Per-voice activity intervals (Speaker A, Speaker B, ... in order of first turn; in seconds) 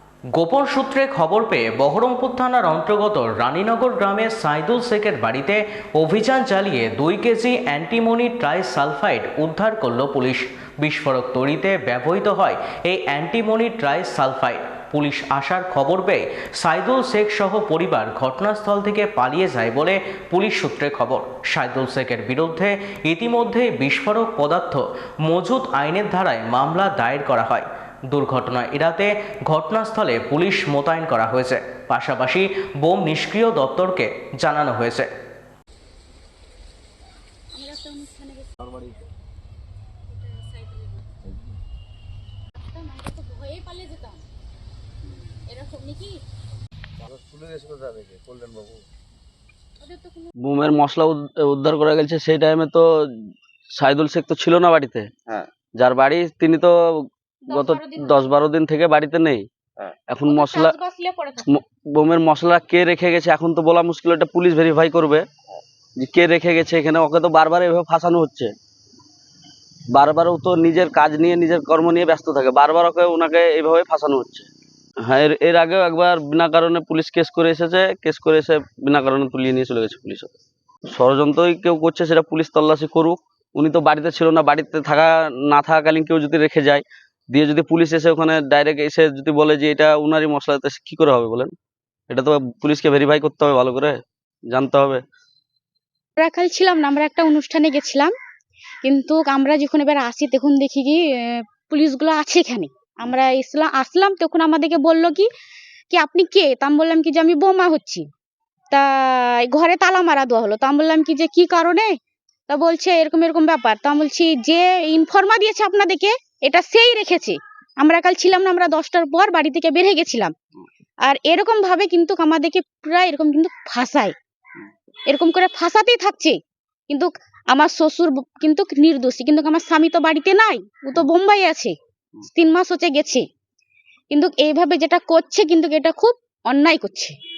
Speaker A: 0.3-35.1
Speaker B: 37.5-38.8, 40.1-41.2, 42.6-44.2, 45.5-46.2, 49.8-50.3, 57.5-58.3, 60.3-61.5, 96.2-98.1, 98.8-105.3, 105.9-108.1, 108.7-112.0, 112.5-120.3, 121.0-124.2, 125.1-126.4, 126.9-133.2, 134.1-137.2
Speaker C: 47.1-48.8, 50.4-60.8, 61.5-65.3, 66.0-68.5, 69.9-74.5, 75.0-80.3, 80.9-91.5, 92.1-94.0, 94.5-95.0